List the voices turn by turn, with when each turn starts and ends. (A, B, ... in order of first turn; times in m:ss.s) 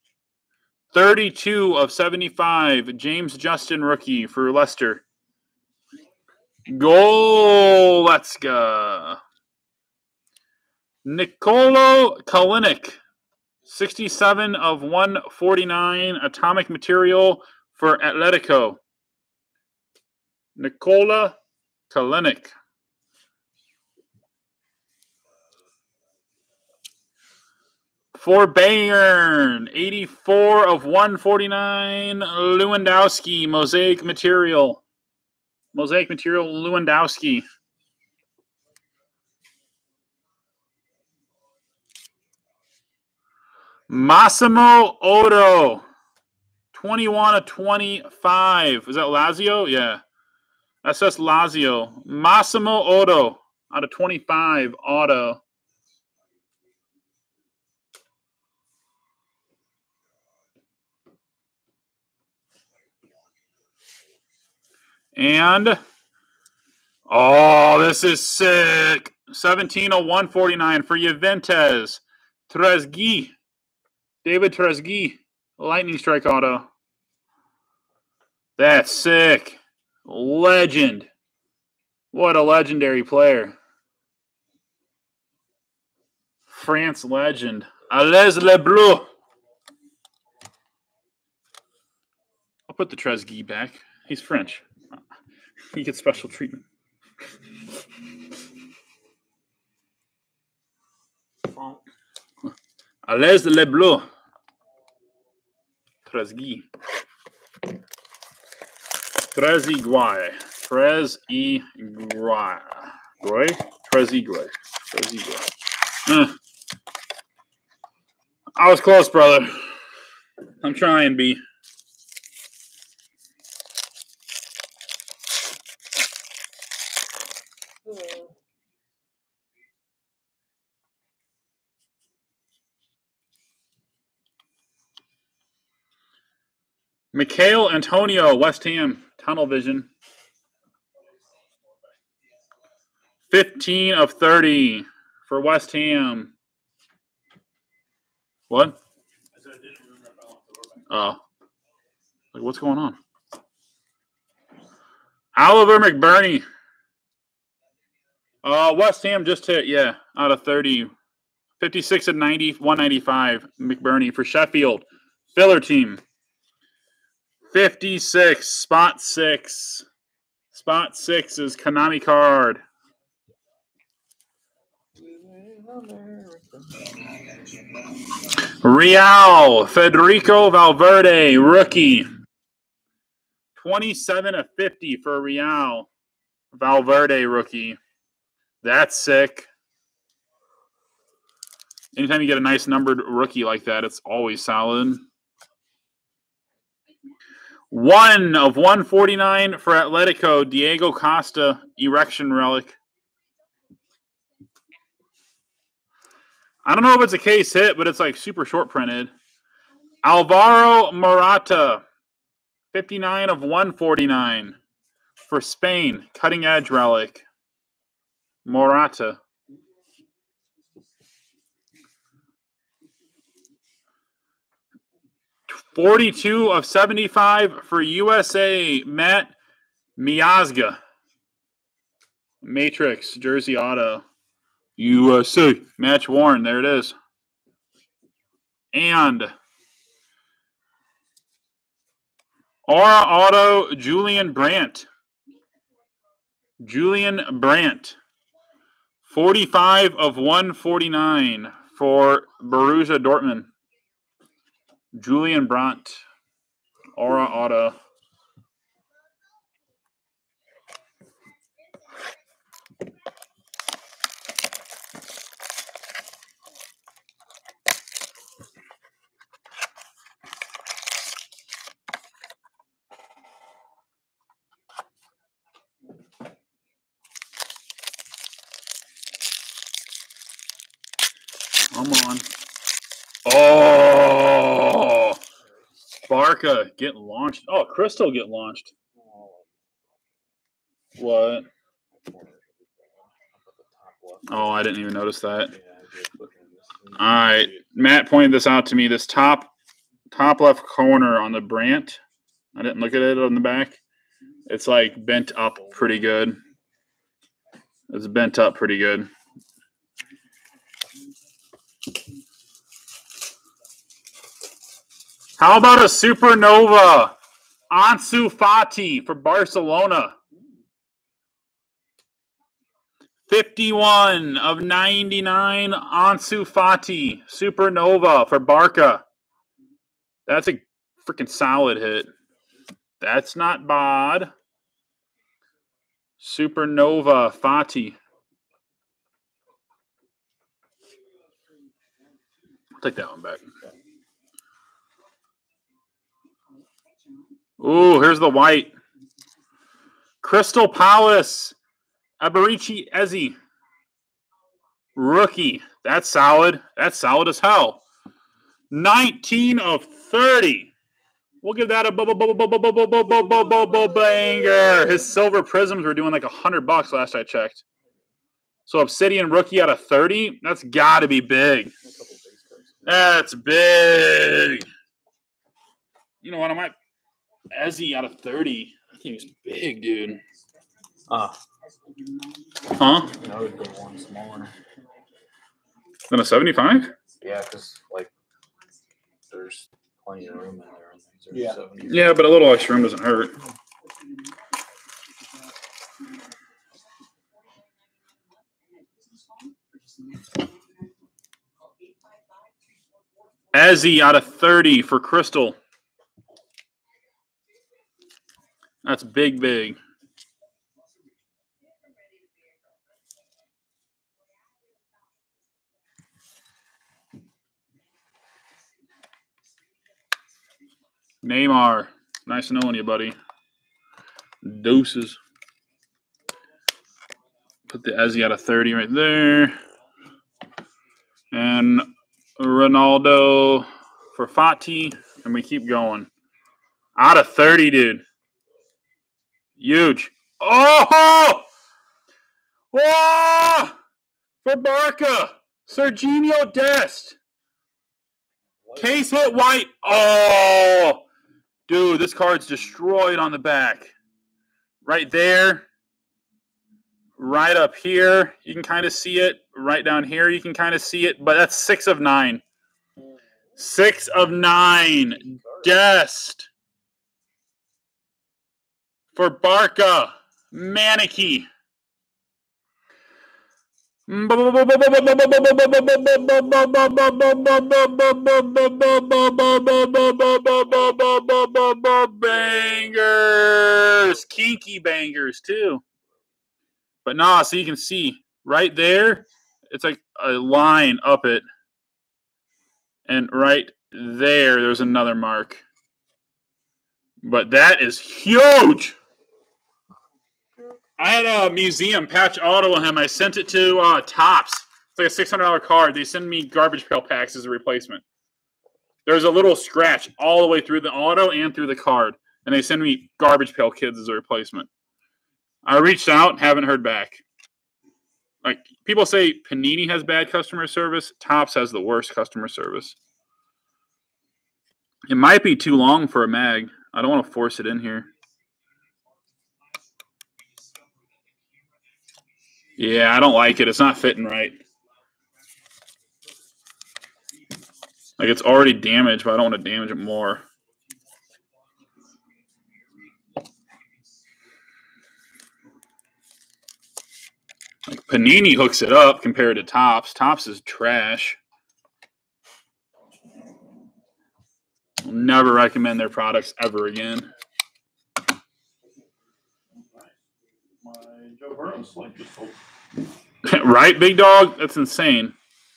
0:00.9-0:05.0 A
0:06.7-0:09.2 A
0:11.0-0:13.0 A
0:13.7-0:18.8 A
0:20.6-0:21.4 A
0:21.9-0:22.5 A
0:28.1-0:34.8 A
0:35.7-0:37.4 A
0:43.9-0:45.8 A
0:46.7-0:50.0 A
0:50.8-0:55.4 A
1:05.1-1:05.8 A
1:07.1-1:13.3 A
1:14.2-1:16.7 A
1:18.6-1:21.1 A
1:22.1-1:23.6 A
1:26.5-1:29.1 A
1:32.7-1:34.6 A
1:35.7-1:36.6 A
1:41.5-1:41.8 B
1:43.1-1:44.1 A
1:46.1-1:46.7 A
1:49.3-1:55.5 A
1:56.1-1:56.4 A
1:58.6-1:59.7 A
2:00.6-2:01.4 A
2:07.9-2:08.3 B
2:17.1-2:19.9 A
2:23.3-2:26.3 A
2:28.5-2:28.8 A
2:29.4-2:30.8 C
2:30.9-2:31.2 A
2:32.3-2:33.0 A
2:35.4-2:36.4 A
2:38.4-2:40.9 A
2:41.6-2:46.0 A
2:47.5-2:49.9 A
2:50.5-2:52.6 A
2:55.0-2:56.8 B
2:58.6-3:02.1 A
3:03.6-3:05.9 A
3:06.5-3:07.8 A
3:08.6-3:09.5 A
3:12.0-3:15.1 A
3:17.7-3:22.8 A
3:26.6-3:29.1 A
3:30.0-3:31.8 A
3:32.7-3:34.6 A
3:35.3-3:37.2 A
3:38.4-3:39.2 A
3:45.5-3:49.4 A
3:50.0-3:50.8 A
3:52.4-3:54.0 A
3:54.8-3:57.0 A
3:58.7-3:59.3 A
4:02.7-4:04.9 A
4:06.6-4:08.0 A
4:09.1-4:13.5 A
4:14.9-4:16.0 A
4:17.0-4:17.8 A
4:41.7-4:42.2 A
4:43.2-4:45.2 A
4:46.0-4:48.7 A
4:49.0-4:49.5 B
4:51.0-4:51.4 A
4:52.0-4:52.6 B
4:53.2-4:54.6 B
4:54.3-4:55.5 A
4:55.5-4:57.5 B
4:57.0-4:59.5 A
5:00.1-5:02.0 A
5:02.6-5:03.8 A
5:04.5-5:06.4 A
5:07.9-5:09.1 A
5:15.4-5:17.1 A
5:17.7-5:20.1 A
5:23.3-5:29.0 A
5:30.3-5:32.1 A
5:33.0-5:34.3 A
5:36.2-5:38.0 A
5:42.8-5:43.4 A
5:47.6-5:48.7 A
5:50.2-5:51.6 A
5:52.2-5:53.4 A
5:55.0-5:57.8 A
5:58.7-6:00.7 A
6:01.4-6:07.6 A
6:08.7-6:11.7 A
6:11.8-6:13.1 B
6:12.8-6:14.7 A
6:16.2-6:16.7 A
6:17.5-6:20.2 A
6:21.1-6:21.4 B
6:22.8-6:23.1 A
6:23.1-6:24.5 B
6:26.1-6:26.9 A
6:27.2-6:28.1 B
6:29.3-6:32.1 B
6:31.9-6:33.4 A
6:43.5-6:45.6 A
6:48.8-6:49.8 A
7:01.2-7:03.1 A
7:04.4-7:05.2 A
7:07.7-7:09.6 A
7:11.3-7:11.9 A
7:12.4-7:16.1 A
7:17.0-7:18.0 A
7:19.6-7:21.5 A
7:22.7-7:23.7 A
7:24.4-7:27.2 A
7:28.6-7:29.0 B
7:28.8-7:31.0 A
7:31.7-7:33.9 A
7:34.8-7:35.7 A
7:37.2-7:42.4 A
7:43.6-7:46.5 A
7:45.3-7:45.7 B
7:49.2-7:51.5 A
7:54.1-8:05.8 A
8:07.0-8:11.4 A
8:13.1-8:15.6 A
8:17.2-8:19.0 A
8:21.0-8:28.0 A
8:29.1-8:34.7 A
8:35.6-8:37.2 A
8:38.4-8:43.0 A
8:45.1-8:48.1 A
8:52.8-8:54.6 A
8:58.2-9:00.4 A
9:07.9-9:11.4 A
9:15.0-9:17.3 A
9:19.8-9:20.1 C
9:20.8-9:22.6 C
9:23.4-9:25.4 A